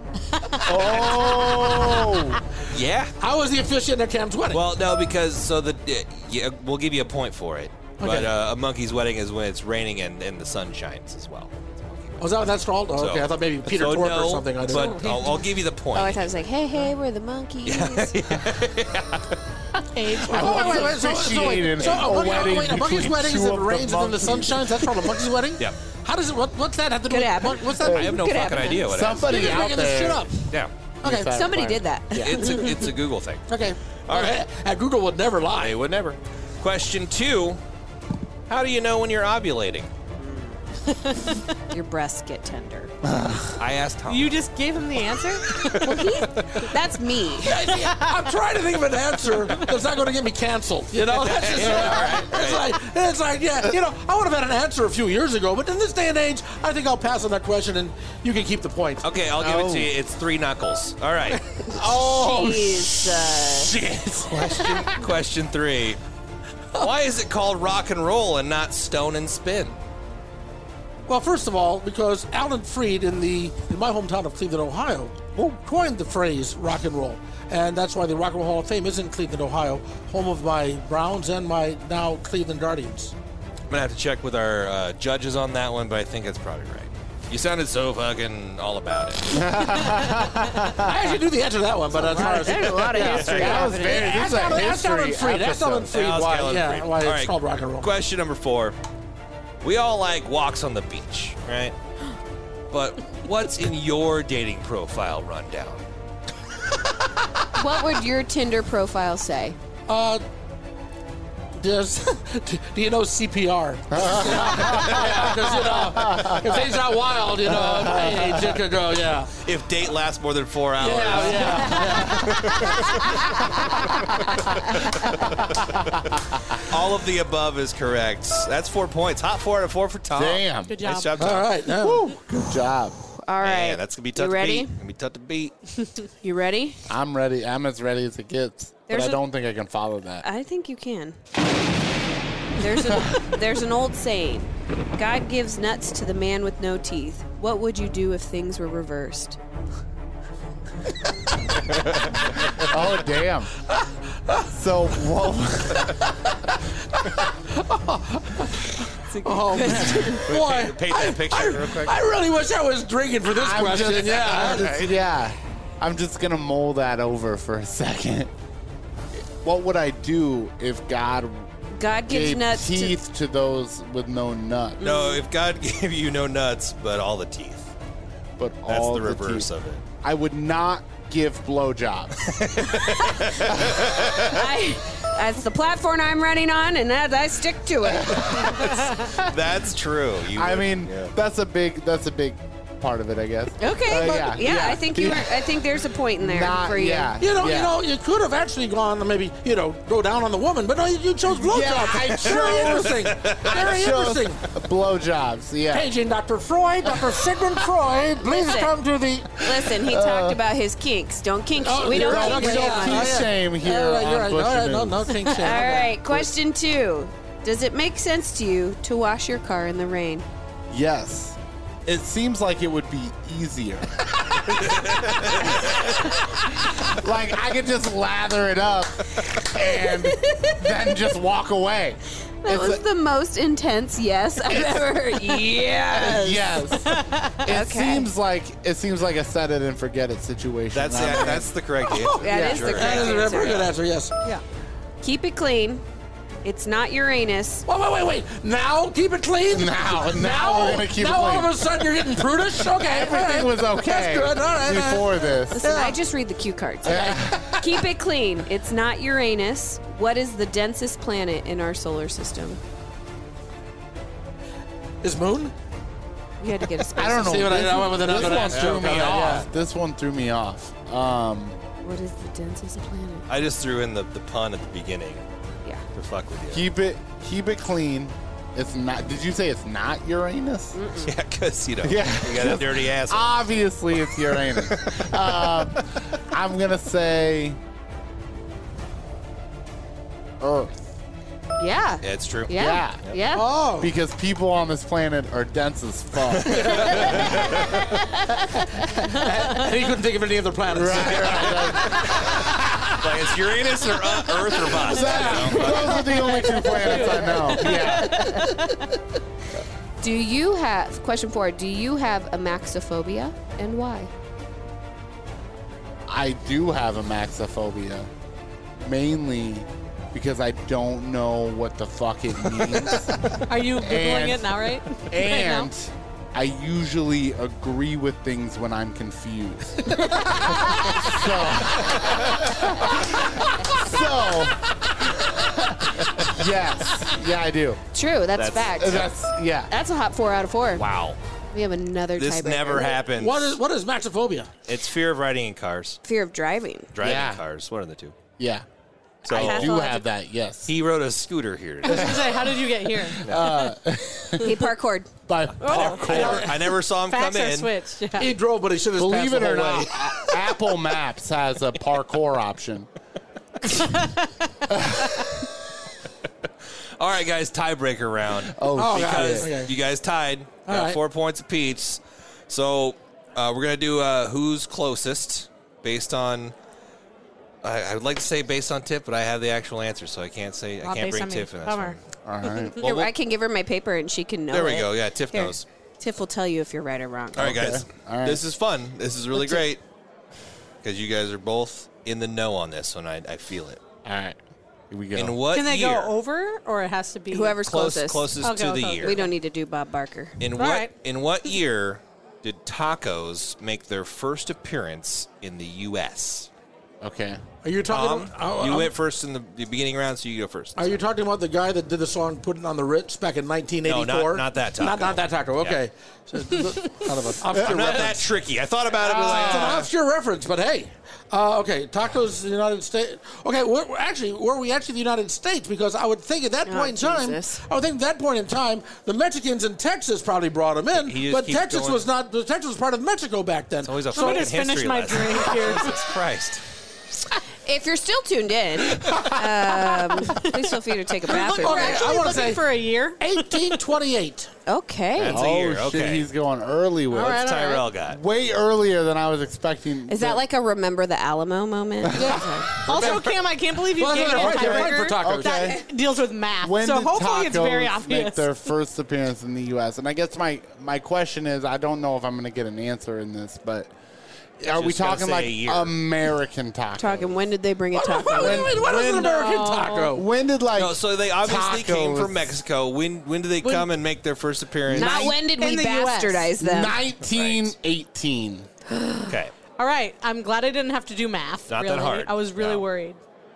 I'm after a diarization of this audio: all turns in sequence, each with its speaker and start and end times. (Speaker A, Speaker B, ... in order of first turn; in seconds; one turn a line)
Speaker A: 0.7-2.4
Speaker B: 0.9-1.4
Speaker B: 2.7-3.1
Speaker C: 3.2-4.6
Speaker B: 4.5-16.3
Speaker C: 8.0-8.3
Speaker C: 12.2-15.3
Speaker D: 14.8-15.3
Speaker E: 15.9-18.1
Speaker B: 17.6-19.4
Speaker D: 19.9-21.1
Speaker C: 20.2-28.2
Speaker A: 20.2-25.1
Speaker E: 27.1-29.0
Speaker B: 27.8-29.6
Speaker A: 27.8-28.2
Speaker A: 28.8-30.3
Speaker C: 29.2-30.4
Speaker A: 31.0-31.9
Speaker C: 31.0-31.3
Speaker E: 31.3-32.9
Speaker B: 32.1-33.5
Speaker C: 33.5-35.8
Speaker B: 34.1-34.4
Speaker B: 35.6-37.6
Speaker B: 38.5-39.9
Speaker E: 40.2-40.6
Speaker D: 40.9-41.4
Speaker E: 41.7-42.9
Speaker A: 43.0-43.6
Speaker B: 43.6-44.4
Speaker D: 44.1-46.1
Speaker E: 45.8-47.8
Speaker C: 47.4-59.1
Speaker B: 51.1-52.8
Speaker B: 59.0-61.4
Speaker A: 59.4-59.9
Speaker E: 61.6-63.7
Speaker A: 61.8-62.9
Speaker C: 62.1-62.6
Speaker A: 63.6-64.9
Speaker C: 63.9-64.2
Speaker B: 64.3-66.0
Speaker B: 66.8-69.8
Speaker C: 71.1-83.1
Speaker B: 83.7-89.5
Speaker A: 89.3-91.0
Speaker C: 90.8-97.9
Speaker E: 92.0-94.1
Speaker A: 92.9-96.0
Speaker B: 93.0-93.7
Speaker B: 95.9-98.8
Speaker B: 99.6-101.8
Speaker B: 102.7-105.8
Speaker E: 107.5-109.6
Speaker C: 109.9-110.2
Speaker C: 111.6-119.3
Speaker A: 113.9-116.7
Speaker B: 114.7-115.1
Speaker A: 117.4-118.6
Speaker B: 119.4-123.3
Speaker C: 120.8-122.7
Speaker A: 121.4-126.2
Speaker B: 124.1-124.4
Speaker B: 124.9-131.6
Speaker A: 130.1-130.8
Speaker D: 130.7-131.2
Speaker C: 131.2-132.1
Speaker A: 131.7-133.0
Speaker E: 133.2-134.7
Speaker B: 133.4-135.6
Speaker E: 136.2-136.8
Speaker A: 136.9-140.2
Speaker E: 138.9-139.2
Speaker E: 140.2-141.2
Speaker E: 142.6-149.4
Speaker A: 152.6-153.5
Speaker A: 154.5-156.0
Speaker C: 156.9-164.9
Speaker B: 159.1-162.0
Speaker A: 163.3-168.3
Speaker B: 164.2-164.9
Speaker A: 169.4-171.5
Speaker E: 171.7-173.0
Speaker A: 172.1-174.8
Speaker E: 174.8-175.2
Speaker B: 174.8-177.7
Speaker A: 178.4-179.5
Speaker B: 178.7-179.8
Speaker A: 180.0-182.4
Speaker B: 182.2-184.4
Speaker E: 182.8-183.2
Speaker A: 183.4-184.2
Speaker E: 184.2-188.8
Speaker A: 187.8-189.1
Speaker B: 189.1-191.1
Speaker A: 190.3-195.5
Speaker E: 193.6-197.2
Speaker A: 196.2-197.8
Speaker C: 197.2-204.4
Speaker A: 201.3-205.9
Speaker B: 202.1-203.7
Speaker C: 205.7-209.4
Speaker A: 206.8-207.1
Speaker E: 208.2-208.7
Speaker E: 209.4-213.3
Speaker A: 209.5-210.4
Speaker C: 211.6-216.2
Speaker A: 211.8-215.2
Speaker E: 215.3-220.2
Speaker A: 220.7-232.8
Speaker B: 224.6-226.0
Speaker E: 229.9-230.8
Speaker E: 232.4-236.7
Speaker A: 234.4-241.6
Speaker D: 236.9-237.3
Speaker E: 237.5-238.1
Speaker B: 240.7-243.7
Speaker C: 241.8-244.2
Speaker E: 242.2-243.7
Speaker A: 242.3-242.7
Speaker E: 245.0-245.8
Speaker E: 246.4-247.7
Speaker C: 247.7-256.0
Speaker A: 249.5-252.1
Speaker A: 252.6-255.7
Speaker E: 255.6-262.6
Speaker A: 256.9-257.6
Speaker C: 256.9-257.6
Speaker C: 265.0-265.5
Speaker E: 266.4-268.0
Speaker A: 267.0-271.6
Speaker C: 267.2-269.5
Speaker B: 268.3-269.3
Speaker E: 271.8-273.2
Speaker B: 273.3-275.2
Speaker B: 275.9-276.7
Speaker A: 276.5-280.8
Speaker E: 280.7-281.1
Speaker B: 281.0-283.4
Speaker A: 281.8-287.6
Speaker B: 284.0-285.8
Speaker A: 290.4-290.9
Speaker E: 291.6-293.5
Speaker B: 292.0-292.5
Speaker A: 292.5-293.0
Speaker C: 293.3-293.9
Speaker A: 293.8-297.9
Speaker C: 296.4-297.5
Speaker B: 296.8-297.6
Speaker C: 299.0-302.2
Speaker A: 300.7-303.1
Speaker B: 301.5-302.3
Speaker B: 303.0-306.4
Speaker A: 304.6-308.6
Speaker C: 304.8-306.0
Speaker D: 306.1-308.9
Speaker E: 310.0-314.1
Speaker A: 316.1-318.1
Speaker A: 318.8-337.8
Speaker D: 323.5-325.7
Speaker B: 332.0-332.4
Speaker E: 337.9-339.1
Speaker B: 338.4-339.1
Speaker A: 338.8-339.7
Speaker E: 339.7-340.8
Speaker B: 340.8-341.2
Speaker E: 341.5-343.0
Speaker B: 342.2-343.6
Speaker C: 343.1-344.5
Speaker B: 344.7-346.0
Speaker E: 346.1-346.9
Speaker B: 346.9-348.1
Speaker A: 347.0-347.4
Speaker A: 348.4-348.7
Speaker A: 349.2-350.7
Speaker B: 349.3-349.8
Speaker E: 349.3-350.1
Speaker B: 350.7-352.4
Speaker D: 351.8-353.7
Speaker A: 351.9-354.5
Speaker B: 353.2-353.5
Speaker E: 354.4-355.1
Speaker A: 355.3-356.5
Speaker D: 355.6-356.4
Speaker B: 355.6-357.7
Speaker C: 356.1-356.5
Speaker D: 357.1-358.3
Speaker C: 358.2-359.9
Speaker A: 359.0-362.9
Speaker A: 364.7-365.1
Speaker B: 367.0-376.5
Speaker A: 368.5-369.5
Speaker C: 368.7-369.7
Speaker C: 370.7-371.0
Speaker B: 377.6-382.0
Speaker D: 380.8-382.6
Speaker A: 382.2-382.8
Speaker E: 382.8-387.6
Speaker B: 382.8-383.1
Speaker B: 384.5-385.7
Speaker A: 387.4-388.4
Speaker B: 387.4-389.8
Speaker B: 390.8-393.8
Speaker A: 394.1-394.4
Speaker A: 394.9-395.4
Speaker B: 395.1-396.1
Speaker D: 395.5-397.6
Speaker E: 397.3-398.3
Speaker B: 397.6-399.3
Speaker D: 398.4-399.3
Speaker E: 399.0-400.4
Speaker B: 400.4-406.5
Speaker D: 400.6-400.9
Speaker A: 407.0-407.4
Speaker C: 407.6-408.9
Speaker B: 407.9-411.0
Speaker C: 410.8-418.3
Speaker B: 413.8-415.8
Speaker B: 417.5-419.9
Speaker A: 417.5-418.0
Speaker C: 419.0-434.6
Speaker A: 419.1-419.9
Speaker E: 426.7-427.6
Speaker B: 430.9-432.1
Speaker B: 433.9-436.6
Speaker D: 434.1-436.0
Speaker E: 437.6-442.5
Speaker D: 441.3-443.8
Speaker C: 441.3-442.7
Speaker C: 443.2-444.5
Speaker E: 444.7-445.4
Speaker B: 445.2-446.3
Speaker A: 445.2-450.4
Speaker D: 447.1-447.9
Speaker B: 447.1-448.2
Speaker E: 450.1-452.7
Speaker A: 452.1-453.2
Speaker D: 452.9-458.5
Speaker B: 452.9-453.2
Speaker C: 454.0-455.8
Speaker A: 454.3-455.8
Speaker A: 456.6-463.9
Speaker A: 464.6-467.3
Speaker B: 464.7-465.9
Speaker E: 467.0-468.8
Speaker C: 467.9-470.2
Speaker A: 468.3-469.4
Speaker D: 468.9-470.1
Speaker A: 470.1-472.6
Speaker B: 470.8-475.3
Speaker D: 473.6-473.9
Speaker E: 474.9-477.0
Speaker D: 475.0-476.6
Speaker A: 476.6-478.7
Speaker B: 477.2-477.7
Speaker E: 478.9-479.2
Speaker B: 479.3-479.6
Speaker D: 479.8-483.2
Speaker B: 481.7-482.8